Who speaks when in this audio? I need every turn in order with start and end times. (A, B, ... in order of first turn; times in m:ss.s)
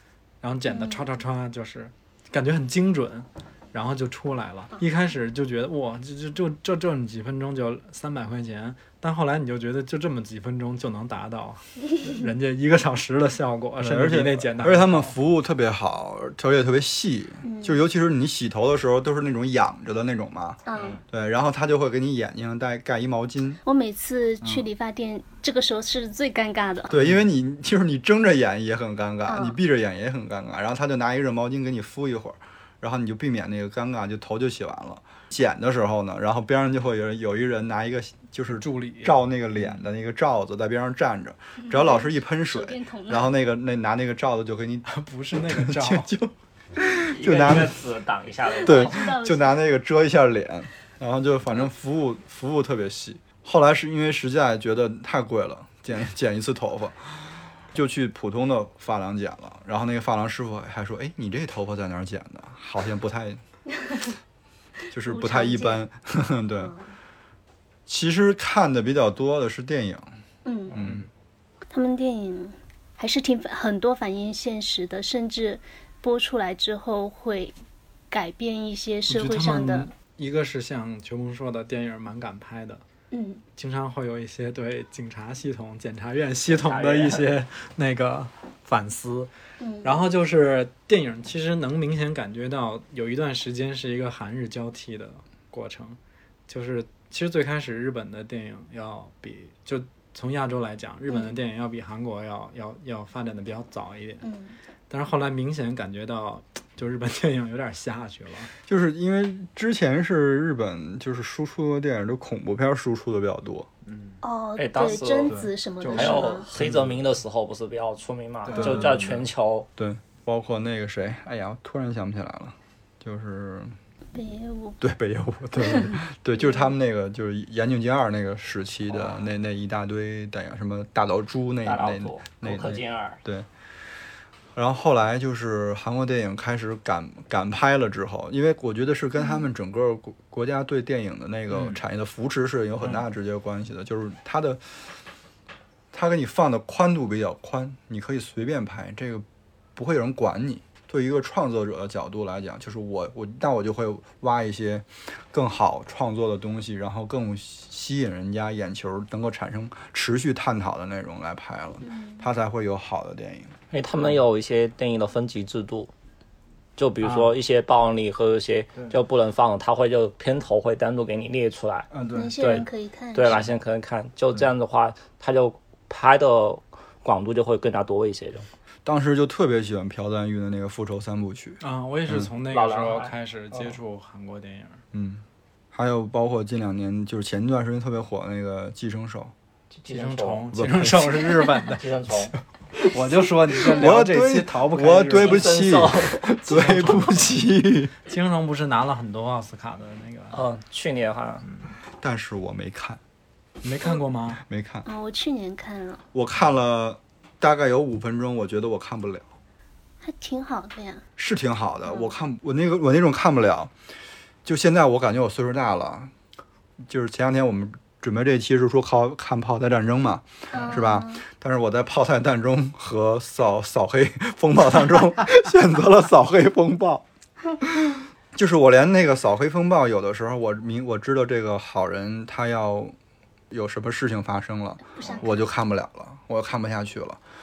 0:00.4-0:15.1 A
0:00.7-0:01.0 B
0:13.8-0:23.6 C
0:17.4-0:17.8 B
0:20.6-0:21.0 B
0:23.6-0:27.0 B
0:26.9-0:44.9 C
0:29.2-0:29.6 B
0:38.6-0:39.2 A
0:41.6-0:43.3 B
0:44.9-0:46.1 A
0:45.4-0:47.8 C
0:47.1-0:49.1 D
0:48.4-0:49.6 B
0:48.6-1:03.4 C
1:04.9-1:06.7 C
1:05.0-1:05.8 B
1:06.6-1:06.9 B
1:07.9-1:10.1 C
1:10.4-1:10.8 B
1:10.7-1:11.0 C
1:11.7-1:17.6 B
1:18.1-1:19.9 B
1:19.1-1:22.8 A
1:23.1-1:23.4 B
1:23.6-1:29.3 A
1:26.5-1:27.3 D
1:29.6-1:30.0 B
1:29.8-1:44.2 A
1:41.1-1:41.3 B
1:44.2-1:44.6 B
1:44.9-1:48.5 A
1:48.6-1:53.7 C
1:53.8-1:54.2 A
1:54.2-1:56.5 B
1:54.6-1:59.7 D
1:55.2-1:55.5 C
1:55.8-1:57.0 A
1:58.5-2:03.8 C
2:04.1-2:04.8 B
2:04.8-2:13.5 C
2:05.6-2:06.7 B
2:08.9-2:09.2 D
2:11.6-2:13.2 D
2:14.5-2:24.9 C
2:21.5-2:21.8 A
2:25.9-2:43.5 C
2:41.8-2:42.2 B
2:43.7-2:45.9 D
2:46.8-2:58.5 D
2:51.9-2:52.3 C
2:52.1-2:53.4 B
2:58.8-3:02.3 C
3:01.6-3:04.8 A
3:02.5-3:03.7 D
3:04.9-3:09.3 C
3:09.7-3:10.5 D
3:09.9-3:11.9 A
3:10.5-3:11.2 C
3:11.6-3:12.3 D
3:12.8-3:15.5 A
3:13.6-3:17.9 C
3:15.2-3:16.3 D
3:16.4-3:17.4 A
3:18.0-3:20.4 A
3:20.3-3:21.4 D
3:22.0-3:23.0 C
3:23.6-3:24.4 A
3:24.4-3:24.8 C
3:24.8-3:26.0 B
3:26.1-3:29.3 C
3:30.0-3:31.0 B
3:31.2-3:33.7 C
3:31.8-3:32.1 B
3:34.4-3:36.1 C
3:36.9-3:47.0 C
3:40.5-3:41.2 B
3:47.6-3:52.9 C
3:53.5-3:57.2 C
3:55.0-3:55.4 B